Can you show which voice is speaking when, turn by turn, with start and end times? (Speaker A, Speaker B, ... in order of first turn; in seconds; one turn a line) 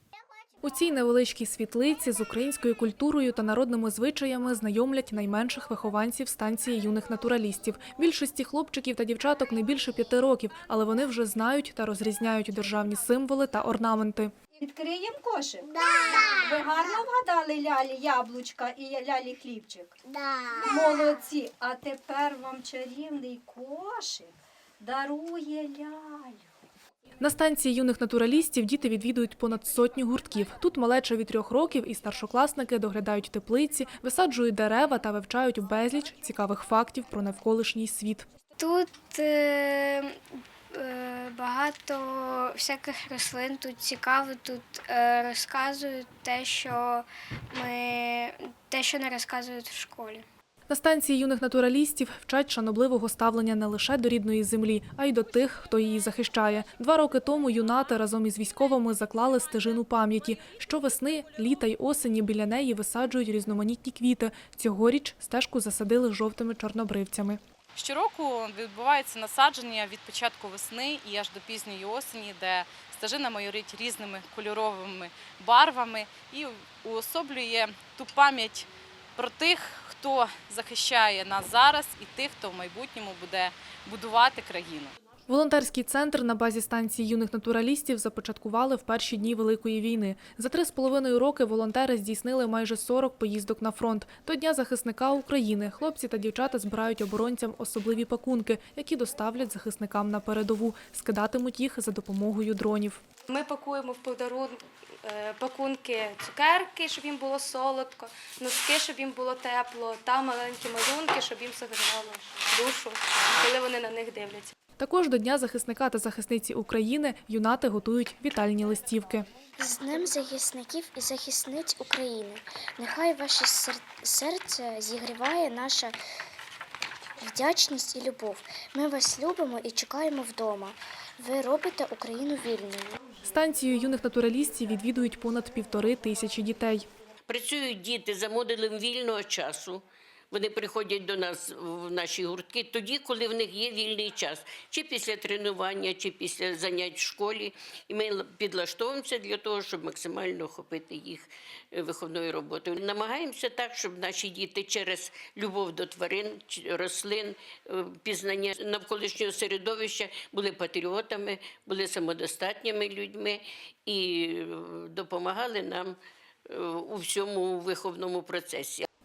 Speaker A: 0.6-14.3
Speaker B: 14.6-19.9
Speaker B: 20.7-26.5
Speaker A: 27.2-38.3
Speaker C: 38.6-40.1
Speaker C: 40.7-50.2
Speaker A: 50.7-67.4
Speaker D: 67.8-84.9
Speaker A: 85.3-103.0
Speaker E: 103.3-114.5
Speaker A: 114.8-119.3
Speaker F: 119.6-125.9
Speaker F: 127.2-133.0
Speaker A: 133.2-136.9
Speaker G: 137.3-166.0
Speaker G: 166.5-168.9